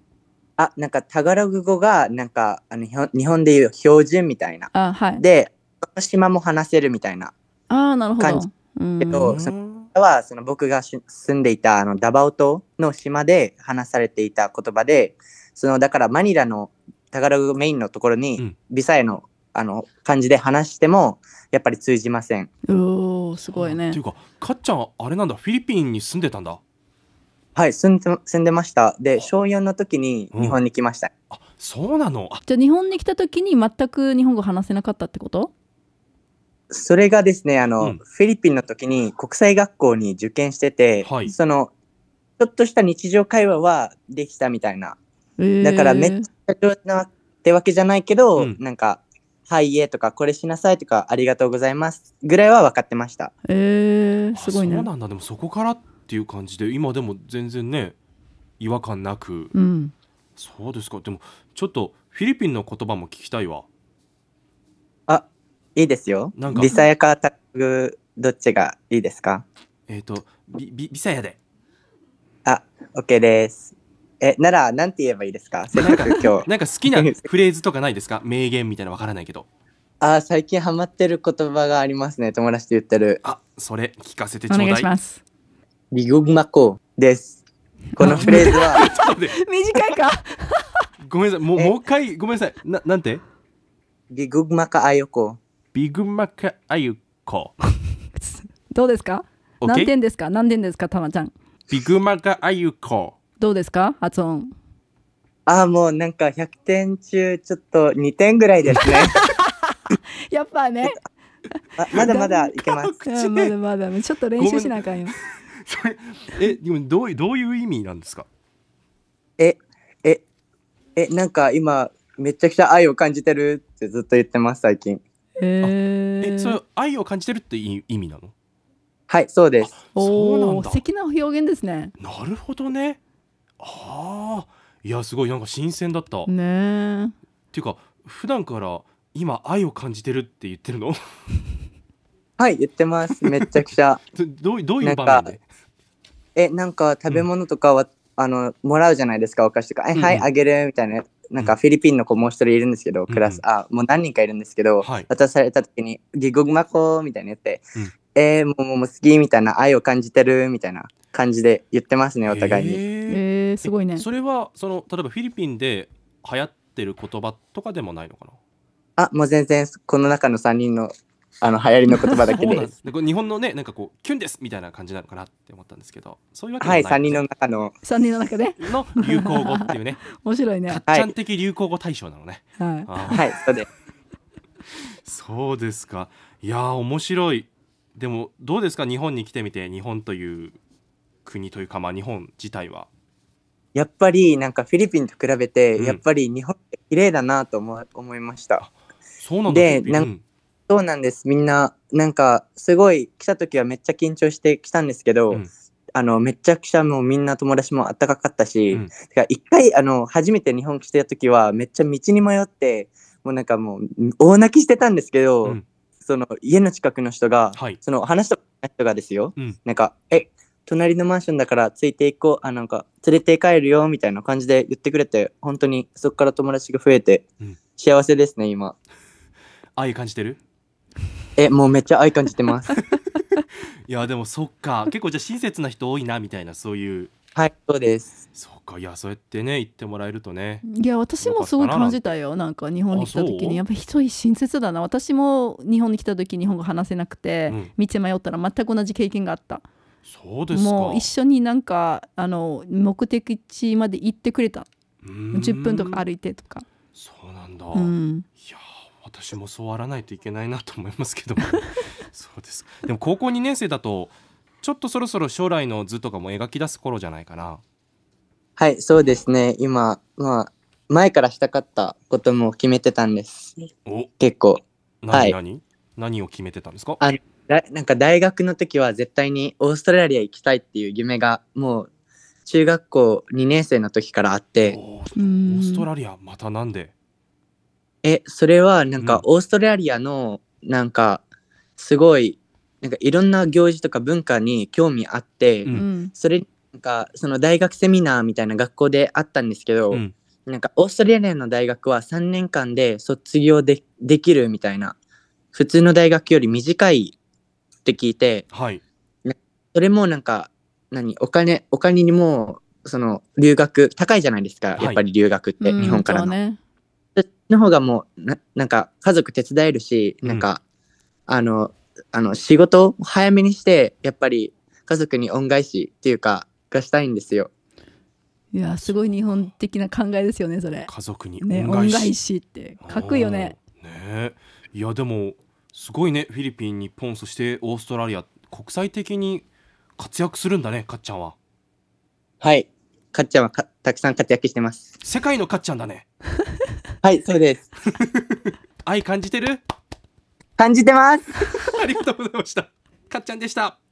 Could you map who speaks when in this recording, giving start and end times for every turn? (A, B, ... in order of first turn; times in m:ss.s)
0:00.6-0:07.3 A
0:04.7-0:05.2 B
0:07.7-0:09.4 B
0:09.0-0:22.5 A
0:09.2-0:09.9 C
0:22.7-0:24.0 B
0:23.4-0:26.6 C
0:27.6-0:31.1 A
0:30.3-0:30.6 C
0:31.3-0:32.4 C
0:32.5-0:35.5 B
0:36.7-0:41.7 A
0:41.0-0:41.3 C
0:42.4-0:45.0 A
0:45.4-0:46.3 B
0:45.6-0:53.3 A
0:53.5-0:54.9 B
0:54.4-0:58.0 C
0:58.6-0:59.5 C
0:59.5-0:59.9 B
1:00.4-1:03.7 C
1:05.8-1:09.5 A
1:06.4-1:06.8 C
1:09.9-1:11.4 C
1:12.4-1:17.2 A
1:15.8-1:19.5 C
1:20.0-1:23.2 A
1:23.2-1:24.9 C
1:24.5-1:25.2 B
1:25.9-1:27.4 A
1:27.9-1:30.7 B
1:28.0-1:28.8 A
1:28.0-1:29.4 C
1:31.0-1:33.2 C
1:34.1-1:35.4 A
1:35.7-1:37.5 C
1:38.1-1:41.3 B
1:39.6-1:39.9 C
1:41.7-1:43.2 C
1:43.4-1:44.5 B
1:45.5-1:49.1 A
1:48.9-1:51.0 B
1:51.8-1:53.0 A
1:51.9-1:52.5 B
1:51.9-1:53.5 C
1:53.0-1:55.1 B
1:54.4-1:58.3 C
1:59.4-2:00.2 A
2:01.0-2:05.0 A
2:05.4-2:06.6 B
2:05.6-2:08.3 C
2:09.1-2:09.8 A
2:09.6-2:10.8 C
2:10.0-2:11.9 B
2:12.0-2:13.0 C
2:13.6-2:16.3 C
2:16.3-2:17.2 B
2:17.5-2:21.0 C
2:22.4-2:24.0 A
2:23.2-2:23.5 C
2:24.2-2:25.4 C
2:24.8-2:25.3 A
2:26.4-2:42.8 A
2:30.0-2:30.3 C
2:33.1-2:33.4 C
2:34.8-2:35.1 C
2:42.3-2:48.4 C
2:43.1-2:44.1 B
2:49.0-2:52.7 A
2:52.2-2:57.2 C
2:56.6-2:57.8 A
2:57.8-3:00.8 B
2:58.6-3:00.1 C
3:00.7-3:03.2 C
3:02.6-3:03.2 B
3:03.1-3:03.7 A
3:05.0-3:10.6 C
3:11.2-3:12.9 C
3:13.7-3:18.6 A
3:18.6-3:20.2 C
3:19.5-3:20.1 A
3:20.7-3:47.2 A
3:47.8-3:48.8 A
3:49.8-3:50.4 C
3:51.4-3:52.7 A
3:53.9-3:57.1 C
3:57.4-3:58.2 A
3:58.3-4:00.7 C
4:00.6-4:09.6 B
4:01.2-4:02.1 C
4:02.9-4:03.6 C
4:10.0-4:11.1 C
4:10.5-4:14.7 B
4:15.0-4:16.0 C
4:15.3-4:16.6 B
4:16.9-4:27.6 C
4:17.7-4:18.3 B
4:28.6-4:33.7 A
4:34.2-4:35.4 A
4:35.0-4:37.0 C
4:37.0-4:41.9 A
4:42.4-4:44.8 A
4:44.6-4:46.9 C
4:45.2-4:45.9 B
4:48.0-4:51.2 A
4:51.8-5:05.0 A
4:55.7-4:56.1 B
5:05.5-5:07.2 A
5:07.8-5:08.5 A
5:08.5-5:08.8 C
5:09.3-5:16.4 A
5:15.6-5:16.6 B
5:17.2-5:20.6 A
5:21.3-5:27.5 A
5:28.5-5:33.5 B
5:28.8-5:29.5 C
5:30.9-5:32.1 C
5:32.8-5:39.5 C
5:40.0-5:41.4 C
5:42.4-5:44.9 A
5:45.0-5:46.0 C
5:47.0-5:47.7 A
5:48.0-5:49.6 C
5:50.6-5:51.2 A
5:51.4-5:53.8 C